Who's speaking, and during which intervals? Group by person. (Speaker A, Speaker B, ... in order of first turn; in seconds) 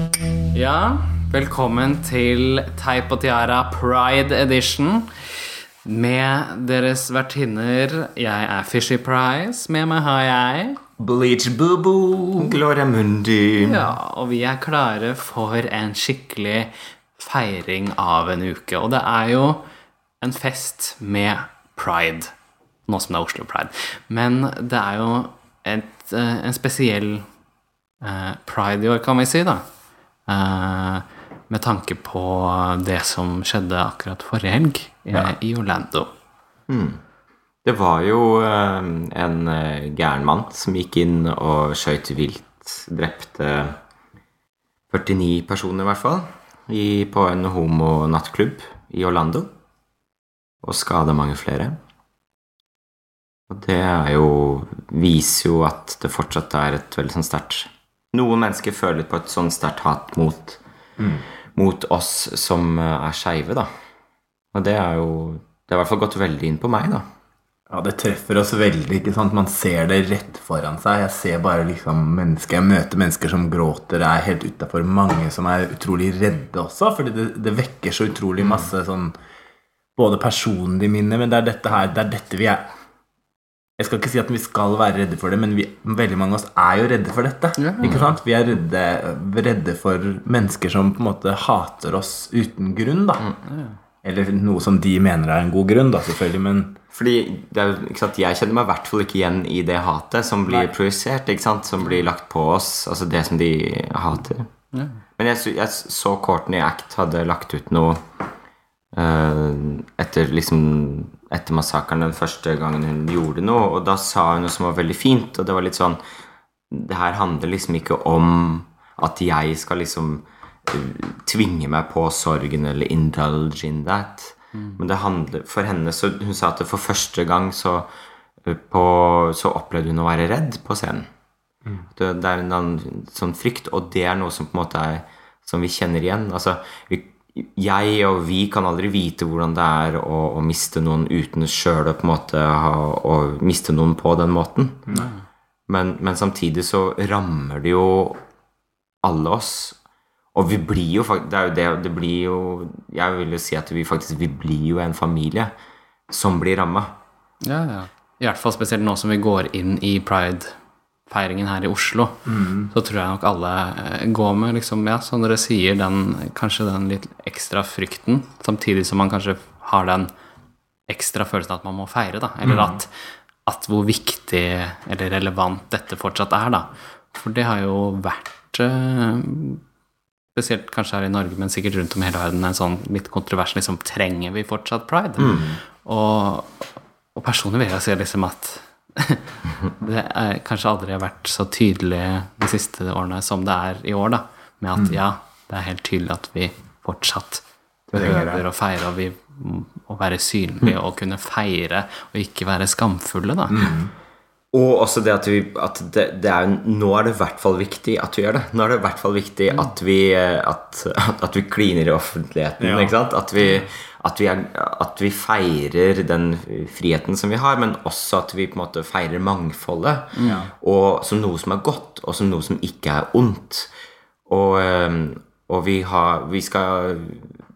Speaker A: 0.5-10.8, 13.6-19.6, 20.2-22.3, 22.9-27.3, 28.0-29.6, 30.3-36.1, 87.6-88.0, 93.5-93.8, 104.7-105.0, 157.4-160.5, 161.1-170.1, 170.9-172.9, 173.4-179.6, 180.3-203.7, 220.2-220.4
Speaker B: 11.0-12.6, 61.0-61.2, 67.7-79.1, 80.0-82.7, 83.8-93.3, 94.0-96.8, 162.3-162.7, 172.4-172.8, 185.2-185.6, 198.0-198.4, 203.5-203.9, 212.6-213.0, 220.2-220.5
Speaker C: 12.4-13.9, 36.7-37.0, 37.6-43.8, 44.9-49.5, 50.6-51.8, 53.5-60.6, 61.5-63.7, 64.5-67.0, 96.9-104.5, 105.2-108.0, 108.9-116.0, 116.7-127.9, 128.4-131.1, 131.9-144.9, 145.7-148.2, 149.0-149.8, 150.3-155.5, 156.1-156.9, 185.2-185.5, 204.5-223.7, 224.3-227.3